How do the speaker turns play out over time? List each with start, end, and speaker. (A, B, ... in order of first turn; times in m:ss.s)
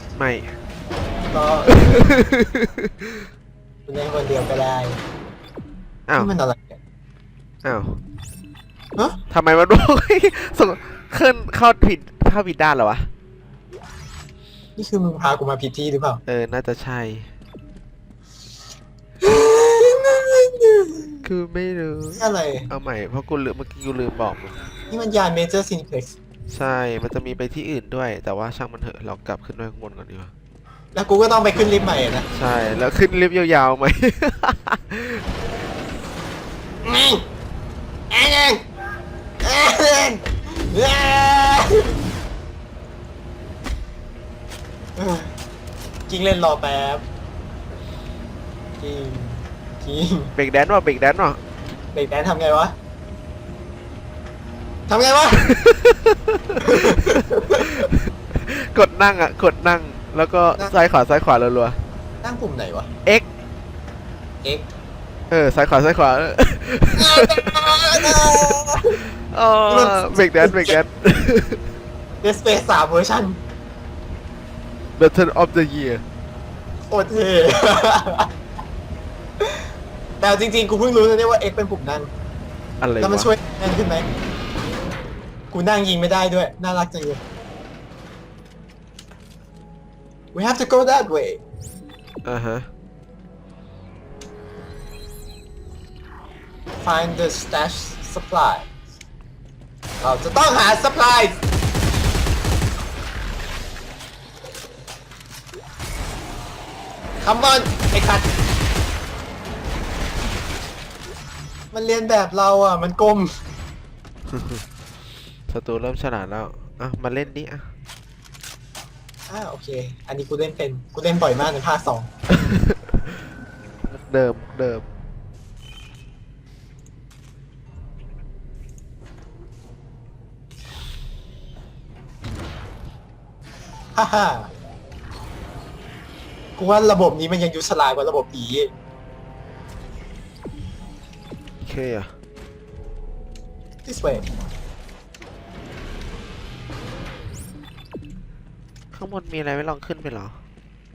0:00.2-0:00.6 A
0:01.3-0:01.9 B
0:01.7-0:03.3 A
0:03.9-0:05.0 B
0:06.1-0:06.3 A
0:06.2-0:06.8 B
0:07.6-0:08.0 A
0:09.3-0:13.1 A
0:14.8-0:16.2 B
0:16.3-0:17.3 A
0:19.2-0:21.2 B
0:21.2-0:24.6 A
0:22.2-0:22.7 B
0:24.9-0:26.1 B
0:26.5-0:30.3 A
0:31.0-0:32.3 B
0:32.3-0:35.2 A
0:36.8-0:37.2 B
0:38.1-0:38.6 B
0:39.4-0:42.0 B
0:45.0-0:45.3 B
0:46.1-0:47.0 B
0:48.8-0:50.3 B
0:50.4-0:51.4 A
0:51.9-0:52.8 B
0:54.9-0:55.6 B
0:55.4-0:57.2 A
0:56.6-0:57.9 B
0:57.8-1:01.8 A
1:02.2-1:02.9 B
1:05.3-1:11.6 A
1:07.0-1:09.0 B
1:09.7-1:10.8 B
1:12.2-1:13.4 B
1:15.0-1:16.0 A
1:16.9-1:18.3 B
1:20.2-1:22.1 B
1:22.8-1:23.3 A
1:23.0-1:24.1 B
1:25.5-1:27.2 B
1:30.3-1:31.4 B
1:32.2-1:32.7 A
1:36.8-1:38.7 B
1:40.0-1:41.4 B
1:47.2-1:48.3 B
1:51.7-1:53.4 B
1:54.3-1:54.6 A
1:55.5-1:57.7 A
1:59.3-2:02.1 B
2:02.3-2:03.2 A
2:03.8-2:04.8 A
2:14.0-2:14.5 B
2:16.6-2:18.7 B
2:21.6-2:22.2 A
2:23.8-2:24.3 B
2:28.9-2:30.4 A